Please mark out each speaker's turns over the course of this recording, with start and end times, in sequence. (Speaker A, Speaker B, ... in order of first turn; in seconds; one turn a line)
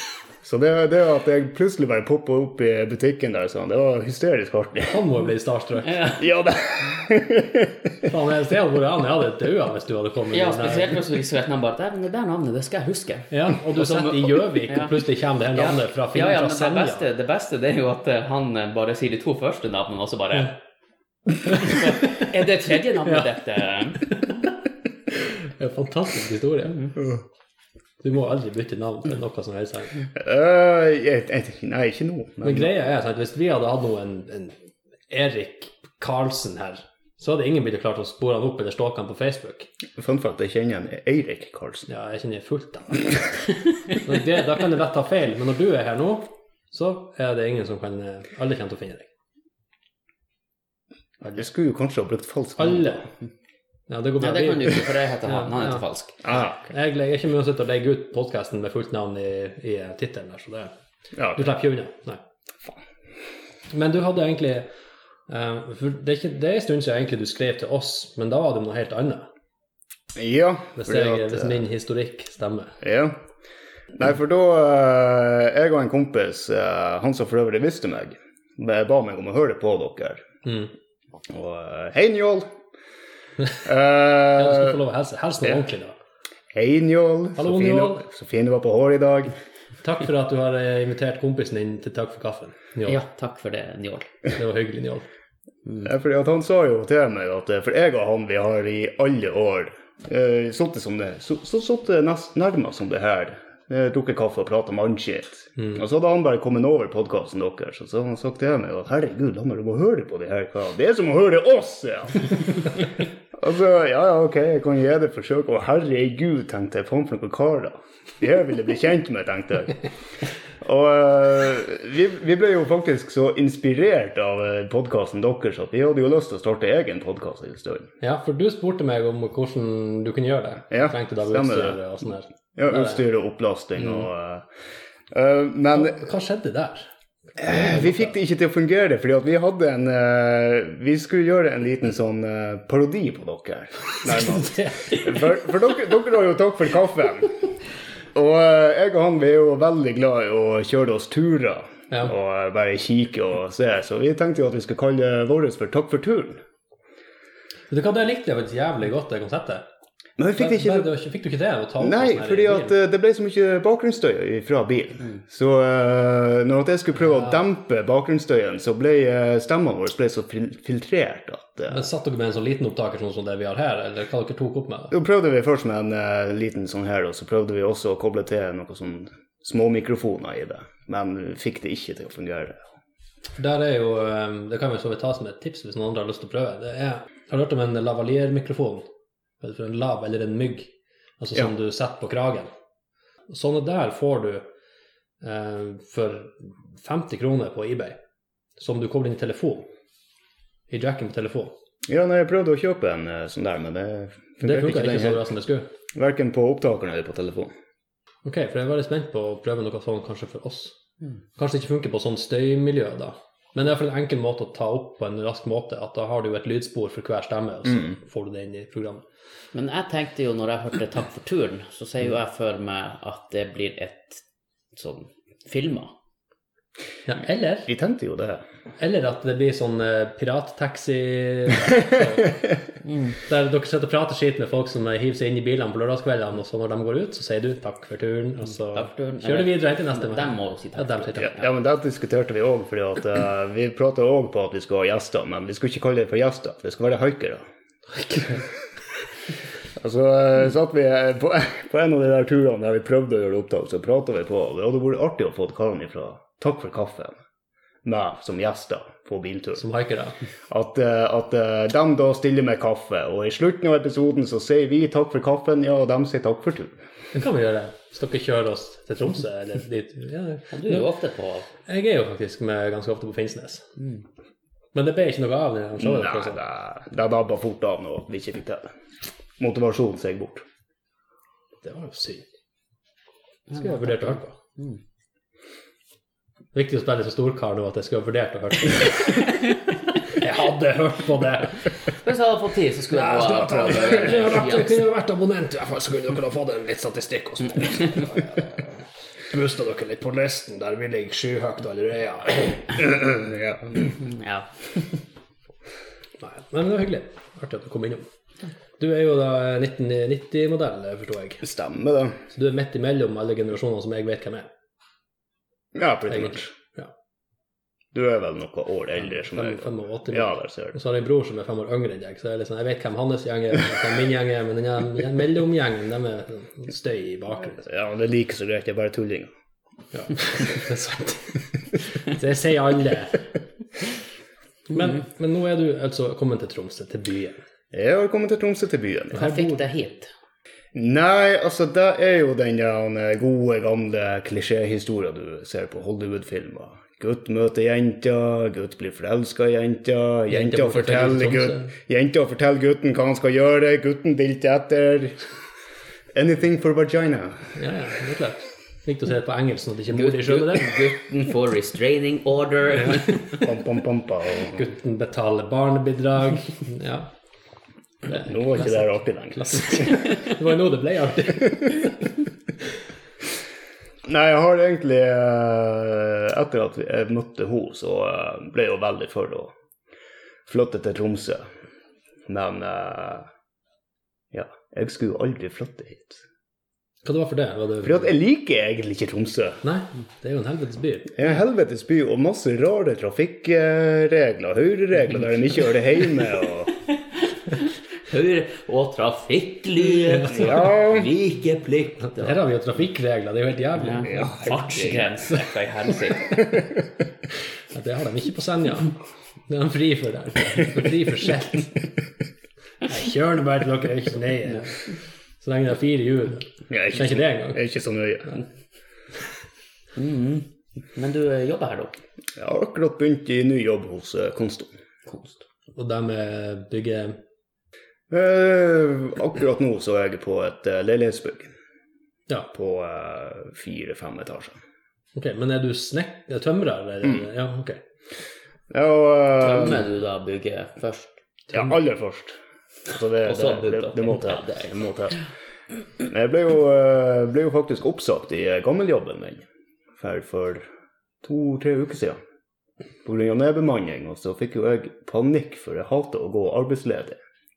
Speaker A: 0.4-5.0
Speaker B: 4.8-6.2
Speaker C: 5.8-6.2
Speaker A: 6.2-8.1
Speaker B: 8.0-11.0
Speaker C: 10.3-14.9
Speaker B: 13.3-17.1
Speaker C: 15.5-20.6
Speaker C: 21.5-24.1
Speaker B: 25.1-26.9
Speaker B: 28.0-30.0
Speaker A: 30.1-32.7
Speaker B: 32.4-34.5
Speaker B: 35.1-39.7
Speaker A: 40.0-41.9
Speaker B: 41.9-49.1
Speaker A: 51.3-53.0
Speaker B: 52.6-53.1
Speaker B: 53.9-55.8
Speaker C: 54.2-56.2
Speaker A: 56.2-56.7
Speaker B: 56.6-60.7
Speaker A: 61.1-61.5
Speaker B: 61.3-62.2
Speaker B: 63.7-64.7
Speaker B: 65.3-69.3
Speaker A: 70.1-71.6
Speaker B: 70.8-72.8
Speaker A: 72.8-73.2
Speaker A: 73.9-80.2
Speaker B: 80.4-80.7
Speaker A: 81.3-82.5
Speaker A: 83.6-84.8
Speaker B: 84.3-86.0
Speaker A: 86.5-89.3
Speaker B: 87.4-88.0
Speaker B: 89.8-93.0
Speaker C: 92.8-94.1
Speaker B: 94.3-95.1
Speaker A: 95.8-112.8
Speaker A: 113.3-119.8
Speaker A: 120.6-127.9
Speaker B: 128.0-133.0
Speaker A: 130.7-131.8
Speaker A: 132.6-134.5
Speaker A: 135.1-136.0
Speaker B: 135.7-138.1
Speaker A: 137.4-147.4
Speaker B: 144.2-145.0
Speaker A: 148.1-156.4
Speaker B: 157.7-159.7
Speaker A: 160.2-160.9
Speaker B: 160.3-162.7
Speaker A: 161.8-171.8
Speaker B: 171.7-174.9
Speaker A: 174.9-182.6
Speaker B: 183.3-188.9
Speaker B: 189.4-192.5
Speaker B: 193.3-194.4
Speaker B: 195.2-198.0
Speaker B: 198.6-199.7
Speaker B: 200.7-201.6
Speaker A: 201.9-205.2
Speaker B: 204.4-205.7
Speaker A: 205.9-207.5
Speaker B: 208.2-210.8
Speaker B: 211.3-219.0
Speaker C: 219.5-224.2
Speaker C: 224.7-225.9
Speaker B: 227.1-227.7
Speaker A: 227.7-228.4
Speaker B: 228.8-232.5
Speaker C: 232.8-233.2
Speaker B: 233.2-241.3
Speaker C: 238.7-241.5
Speaker A: 241.2-247.4
Speaker B: 247.9-248.4
Speaker A: 249.8-257.1
Speaker A: 257.8-259.6
Speaker B: 259.6-260.2
Speaker A: 260.5-266.8
Speaker B: 267.1-270.9
Speaker C: 270.5-271.5
Speaker B: 271.6-273.7
Speaker B: 274.7-276.4
Speaker A: 275.8-278.7
Speaker A: 279.4-280.4
Speaker B: 281.6-282.2
Speaker C: 283.5-284.8
Speaker B: 283.5-284.4
Speaker B: 286.5-289.5
Speaker B: 290.1-291.9
Speaker C: 292.0-294.8
Speaker B: 292.9-302.8
Speaker A: 302.8-303.7
Speaker C: 303.9-304.8
Speaker B: 306.2-308.1
Speaker B: 308.8-311.4
Speaker A: 311.4-312.2
Speaker B: 312.3-314.5
Speaker A: 315.7-316.5
Speaker B: 316.1-316.9
Speaker A: 317.9-320.8
Speaker B: 319.0-327.6
Speaker A: 327.6-329.3
Speaker B: 329.9-333.2
Speaker B: 334.7-337.4
Speaker A: 337.7-339.3
Speaker C: 339.1-340.1
Speaker B: 339.1-339.6
Speaker A: 340.7-355.2
Speaker B: 350.3-351.7
Speaker A: 356.1-357.6
Speaker B: 357.6-360.9
Speaker C: 359.9-363.4
Speaker B: 362.8-363.1
Speaker A: 363.4-364.6
Speaker B: 364.4-367.1
Speaker B: 368.1-372.2
Speaker A: 368.1-370.0
Speaker A: 374.0-379.5
Speaker A: 380.4-381.5
Speaker A: 382.3-383.3
Speaker A: 384.3-386.2
Speaker B: 387.0-388.1
Speaker A: 387.8-389.6
Speaker B: 389.6-391.3
Speaker A: 391.1-396.7
Speaker C: 397.5-402.4
Speaker B: 400.0-400.6
Speaker A: 400.3-401.1
Speaker B: 402.1-405.2
Speaker C: 403.8-406.4
Speaker A: 404.1-404.9
Speaker B: 407.7-411.9
Speaker B: 412.8-417.6
Speaker A: 416.7-418.4
Speaker C: 419.9-421.9
Speaker A: 422.4-424.7
Speaker C: 425.1-425.4
Speaker B: 425.7-427.2
Speaker A: 428.1-431.5
Speaker A: 432.5-434.6
Speaker B: 435.1-437.8
Speaker A: 438.7-439.8
Speaker C: 439.3-441.2
Speaker A: 441.5-445.2
Speaker C: 443.2-444.7
Speaker A: 446.0-449.4
Speaker A: 450.0-450.6
Speaker A: 451.2-452.2
Speaker A: 453.0-457.2